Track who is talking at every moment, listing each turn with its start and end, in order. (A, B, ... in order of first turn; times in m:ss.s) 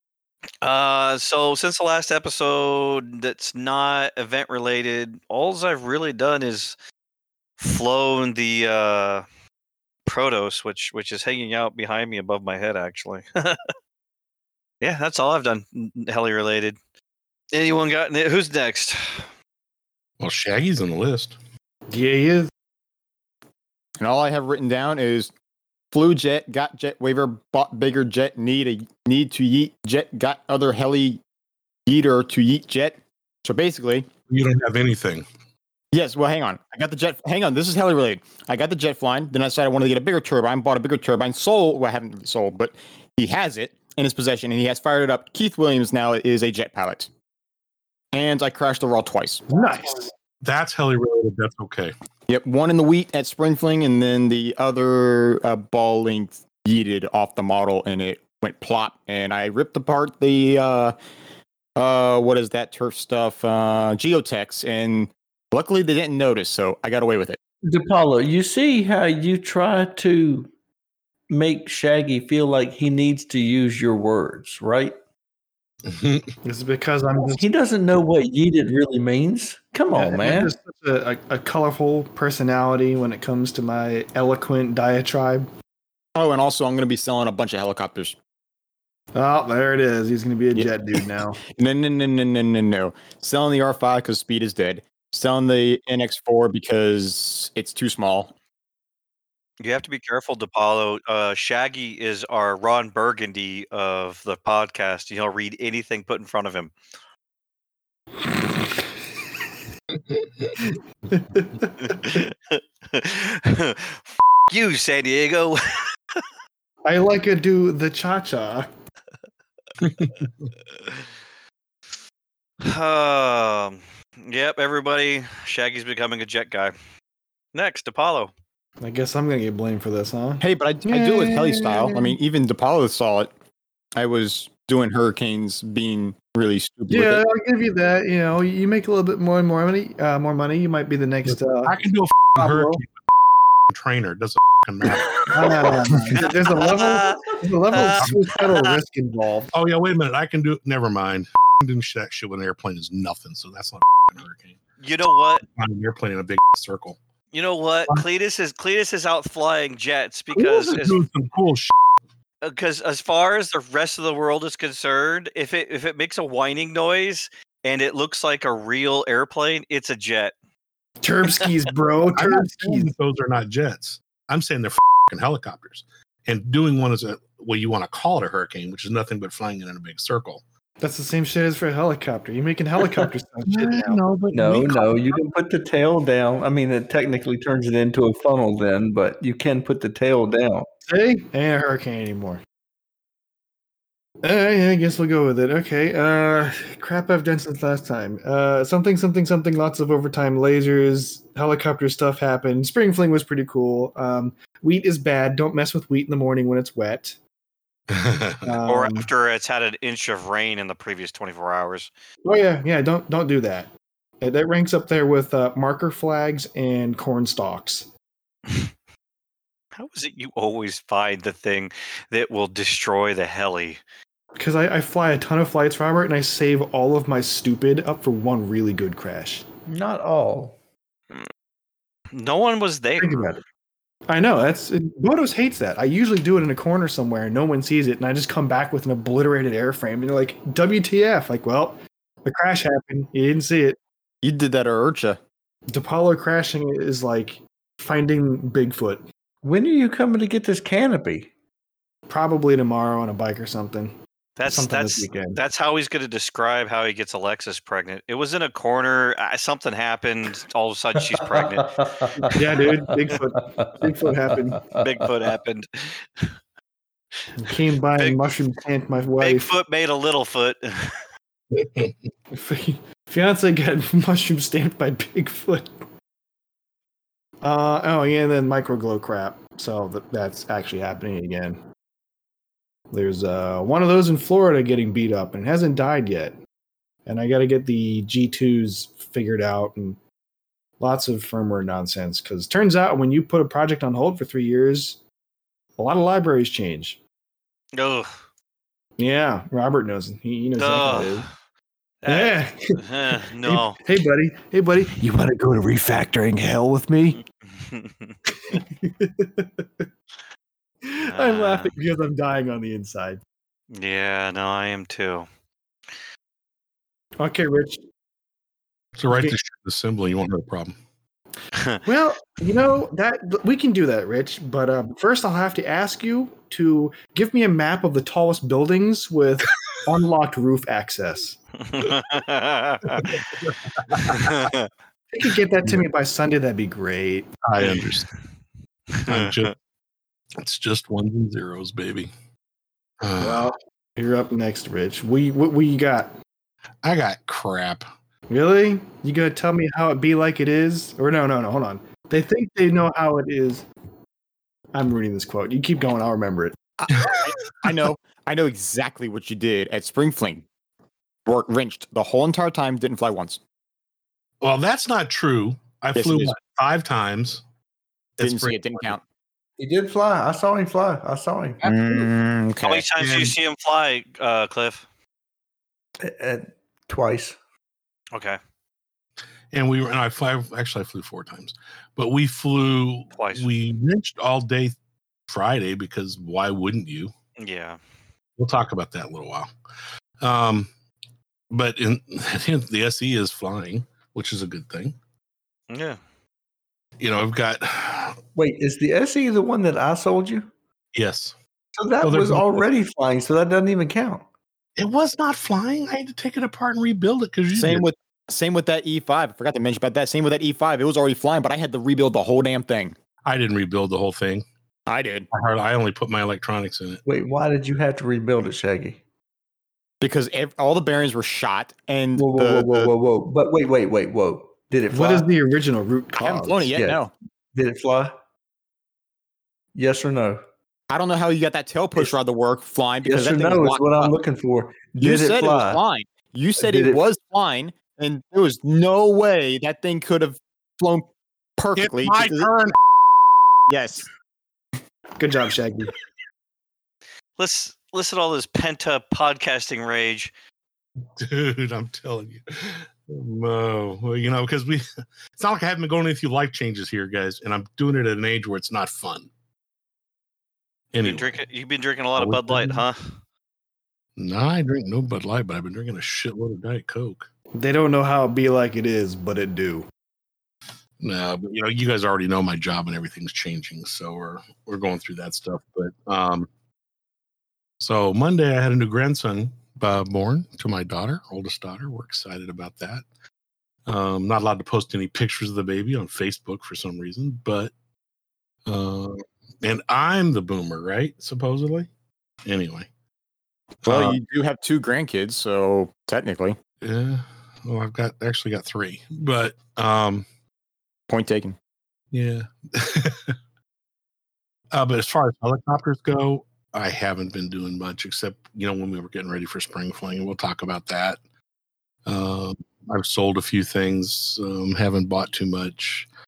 0:00.6-0:06.8 A
0:07.6-0:09.2 A
0:10.1-0:13.7 A
0:14.8-0:16.8 A
0:17.5-0:19.3 A
0:20.2-0:21.4 B
0:21.9-0:22.5 C
0:24.0-0:25.3 D
0:25.9-0:31.2 D
0:31.9-0:34.1 D
0:34.3-0:35.2 B
0:35.9-0:47.1 D
0:48.1-0:49.4 D
0:49.5-0:50.1 C
0:50.4-0:51.9 B
0:52.3-1:00.9 D
1:01.8-1:07.4 D
1:07.6-1:10.5 E
1:11.3-1:15.0 E
1:15.9-1:16.3 B
1:16.4-1:17.4 C
1:17.2-1:20.5 E
1:19.9-1:25.5 C
1:26.2-1:28.2 D
1:29.2-1:31.4 C
1:31.5-1:38.3 D
1:39.6-1:46.7 A
1:48.3-1:48.7 C
1:50.1-1:50.6 B
1:50.6-1:52.2 C
1:51.8-1:56.2 A
1:56.8-1:58.7 C
1:59.8-2:00.5 B
2:02.6-2:06.7 A
2:07.5-2:08.3 A
2:08.8-2:12.2 C
2:10.4-2:13.3 D
2:14.0-2:17.2 D
2:16.9-2:21.8 C
2:21.3-2:23.0 B
2:22.4-2:22.8 C
2:23.7-2:26.3 B
2:24.8-2:29.5 C
2:26.5-2:28.7 A
2:28.0-2:28.2 B
2:29.5-2:34.6 B
2:34.8-2:35.4 A
2:35.5-2:37.0 B
2:37.3-2:41.0 A
2:40.3-2:41.7 B
2:42.4-2:50.3 A
2:51.0-2:52.9 C
2:52.2-3:00.4 B
3:00.8-3:04.0 C
3:03.5-3:04.9 B
3:04.3-3:10.7 E
3:10.9-3:12.4 C
3:14.2-3:27.2 C
3:27.9-3:28.6 B
3:28.4-3:29.1 C
3:28.7-3:31.9 A
3:32.2-3:37.9 C
3:39.8-3:43.8 A
3:44.4-3:49.5 C
3:49.7-3:50.6 E
3:52.1-3:53.2 A
3:53.0-3:53.4 C
3:54.1-4:03.8 C
4:04.2-4:05.2 D
4:05.7-4:09.0 C
4:09.4-4:11.3 E
4:12.1-4:14.0 C
4:14.4-4:22.2 A
4:14.5-4:15.4 C
4:21.1-4:22.7 E
4:22.3-4:24.6 C
4:23.4-4:25.1 E
4:24.8-4:26.3 A
4:27.4-4:29.5 C
4:29.2-4:31.0 A
4:32.3-4:35.8 C
4:37.4-4:41.6 C
4:42.9-4:46.4 C
4:47.0-4:50.0 C
4:50.8-4:55.0 C
4:55.8-4:57.0 C
4:57.8-4:58.1 A
4:59.0-5:01.2 C
5:00.6-5:01.3 A
5:02.0-5:03.8 A
5:02.1-5:07.2 C
5:07.5-5:08.2 A
5:08.4-5:09.9 C
5:10.8-5:13.2 C
5:11.0-5:11.8 A
5:13.7-5:15.3 A
5:17.2-5:17.8 C
5:19.0-5:20.8 B
5:19.1-5:19.4 C
5:21.5-5:21.8 A
5:21.8-5:31.4 C
5:31.6-5:33.2 A
5:33.0-5:34.5 B
5:34.1-5:34.7 A
5:35.1-5:37.7 C
5:37.4-5:38.1 B
5:38.9-5:39.5 A
5:39.1-5:39.5 B
5:40.4-5:42.1 B
5:43.0-5:43.5 B
5:43.2-5:46.1 C
5:46.8-5:47.9 B
5:48.3-5:53.7 C
5:54.7-5:56.6 C
5:56.9-6:00.5 D
5:56.9-5:57.5 B
6:01.2-6:03.4 D
6:04.4-6:07.4 B
6:05.9-6:06.4 D
6:08.2-6:09.0 B
6:08.2-6:09.0 D
6:09.6-6:11.7 E
6:11.6-6:12.9 D
6:12.6-6:14.9 A
6:13.0-6:13.3 B
6:16.0-6:17.4 E
6:18.1-6:18.4 A
6:19.5-6:24.8 B
6:23.2-6:23.5 A
6:25.3-6:27.1 B
6:27.4-6:27.8 A
6:28.4-6:29.5 B
6:30.2-6:30.7 B
6:31.5-6:35.0 B
6:35.7-6:36.0 A
6:37.0-6:38.2 B
6:38.4-6:40.5 E
6:40.9-6:41.3 B
6:41.8-6:44.2 E
6:42.0-6:42.6 B
6:44.8-6:47.9 B
6:47.5-6:53.0 D
6:53.2-6:54.4 B
6:54.9-6:55.3 D
6:55.3-6:57.0 B
6:57.0-6:59.0 E
7:00.0-7:02.9 D
7:02.2-7:05.3 E
7:04.9-7:06.6 C
7:06.2-7:07.1 D
7:06.7-7:08.2 E
7:09.8-7:10.4 E
7:10.9-7:14.2 D
7:13.0-7:15.8 E
7:15.0-7:22.6 D
7:16.6-7:17.0 E
7:21.8-7:22.8 B
7:23.7-7:24.1 D
7:25.2-7:25.9 C
7:27.4-7:30.3 A
7:31.2-7:34.8 B
7:35.4-7:39.3 B
7:40.9-7:41.3 B
7:41.0-7:43.2 A
7:42.2-7:42.8 B
7:44.2-7:47.3 B
7:47.5-7:49.9 C
7:51.0-7:56.5 B
7:57.8-8:03.0 B
8:03.9-8:07.7 B
8:08.7-8:11.9 B
8:12.4-8:12.9 B
8:13.8-8:14.2 B
8:13.8-8:16.6 D
8:16.8-8:20.3 B
8:21.1-8:21.6 D
8:22.1-8:23.3 B
8:24.7-8:31.2 B
8:32.0-8:36.1 B